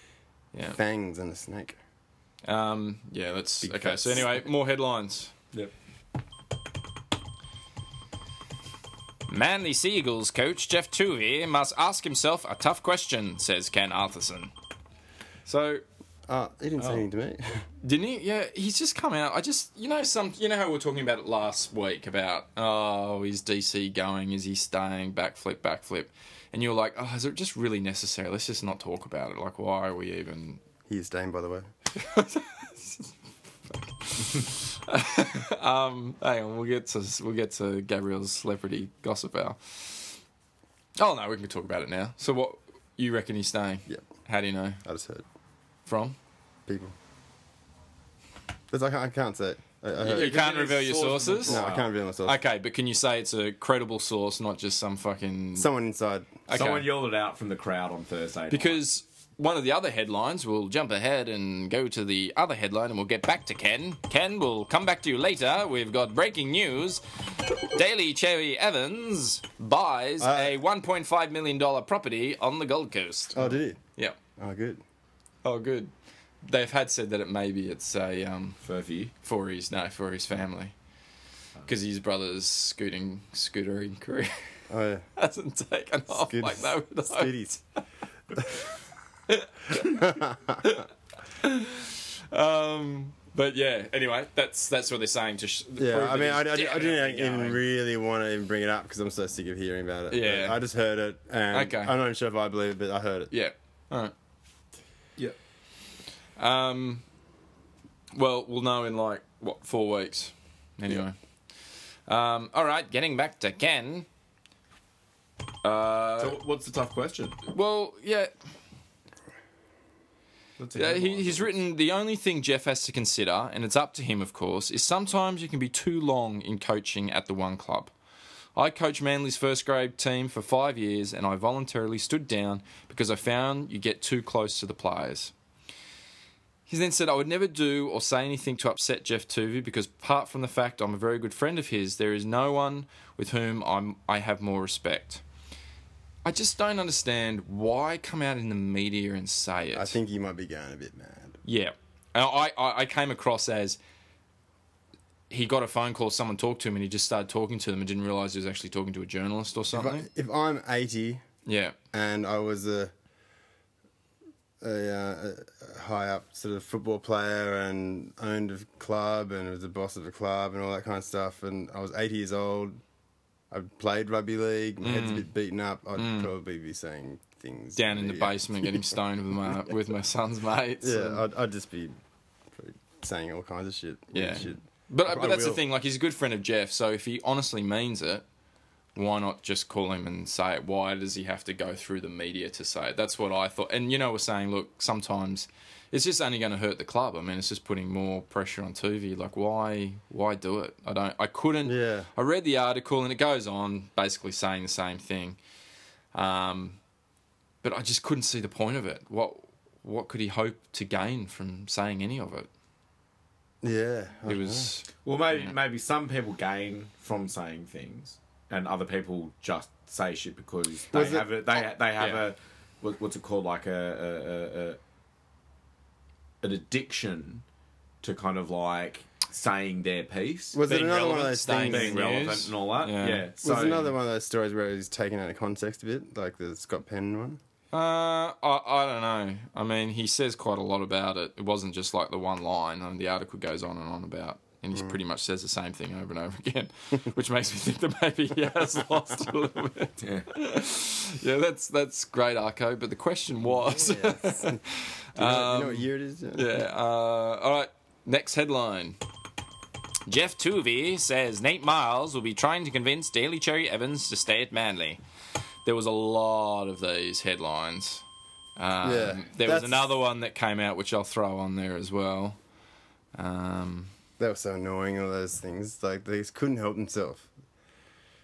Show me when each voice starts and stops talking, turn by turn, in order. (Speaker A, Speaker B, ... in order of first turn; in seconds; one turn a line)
Speaker A: 0.7-1.8
Speaker B: 2.4-5.3
Speaker A: 3.6-4.4
Speaker B: 9.3-14.5
Speaker B: 15.4-15.8
Speaker A: 16.3-17.6
Speaker B: 17.8-30.6
Speaker A: 30.9-31.7
Speaker B: 31.9-33.1
Speaker B: 33.7-40.2
Speaker B: 41.0-44.8
Speaker A: 44.8-45.2
Speaker B: 45.9-46.1
Speaker A: 46.7-46.9
Speaker A: 48.7-50.4
Speaker C: 50.0-51.9
Speaker B: 50.1-51.6
Speaker A: 51.5-52.4
Speaker B: 52.2-55.7
Speaker A: 55.5-56.3
Speaker B: 56.5-56.9
Speaker C: 56.5-58.8
Speaker B: 58.5-67.0
Speaker B: 67.6-74.2
Speaker A: 70.2-70.5
Speaker A: 73.3-73.8
Speaker A: 74.4-74.8
Speaker B: 75.4-78.6
Speaker C: 78.6-79.1
Speaker B: 79.2-80.7
Speaker B: 81.7-84.4
Speaker A: 84.7-85.0
Speaker B: 85.2-87.3
Speaker A: 86.1-87.6
Speaker B: 88.4-88.7
Speaker B: 89.3-90.9
Speaker A: 89.8-90.7
Speaker B: 91.4-97.6
Speaker A: 95.8-103.3
Speaker B: 100.1-100.6
Speaker B: 101.5-101.9
Speaker B: 103.3-104.1
Speaker B: 106.4-107.0
Speaker B: 108.1-111.2
Speaker B: 112.1-114.1
Speaker B: 115.6-116.4
Speaker C: 116.2-117.4
Speaker B: 117.5-118.3
Speaker C: 120.6-121.5
Speaker B: 120.8-127.9
Speaker B: 128.5-135.3
Speaker B: 136.7-145.2
Speaker B: 146.2-150.0
Speaker A: 149.7-151.4
Speaker B: 151.4-153.8
Speaker B: 155.3-160.1
Speaker A: 159.7-161.2
Speaker B: 161.4-161.7
Speaker A: 161.9-162.9
Speaker A: 164.6-172.8
Speaker A: 173.5-179.0
Speaker B: 174.8-175.3
Speaker B: 175.9-176.3
Speaker B: 177.8-181.2
Speaker A: 180.8-181.9
Speaker A: 182.5-185.6
Speaker B: 184.1-188.2
Speaker B: 188.9-205.4
Speaker A: 201.6-202.1
Speaker B: 206.1-206.8
Speaker B: 207.6-212.5
Speaker A: 213.6-214.7
Speaker B: 214.2-215.5
Speaker C: 215.0-224.8
Speaker A: 220.9-221.3
Speaker C: 226.4-227.4
Speaker C: 228.0-230.6
Speaker A: 230.5-232.0
Speaker B: 230.6-233.2
Speaker C: 231.5-233.9
Speaker A: 233.4-237.4
Speaker B: 237.7-259.0
Speaker C: 250.0-250.3
Speaker A: 253.5-254.6
Speaker A: 255.2-256.6
Speaker B: 260.1-265.0
Speaker B: 265.6-268.0
Speaker B: 268.6-272.4
Speaker A: 268.8-269.9
Speaker B: 273.1-273.9
Speaker A: 274.2-277.3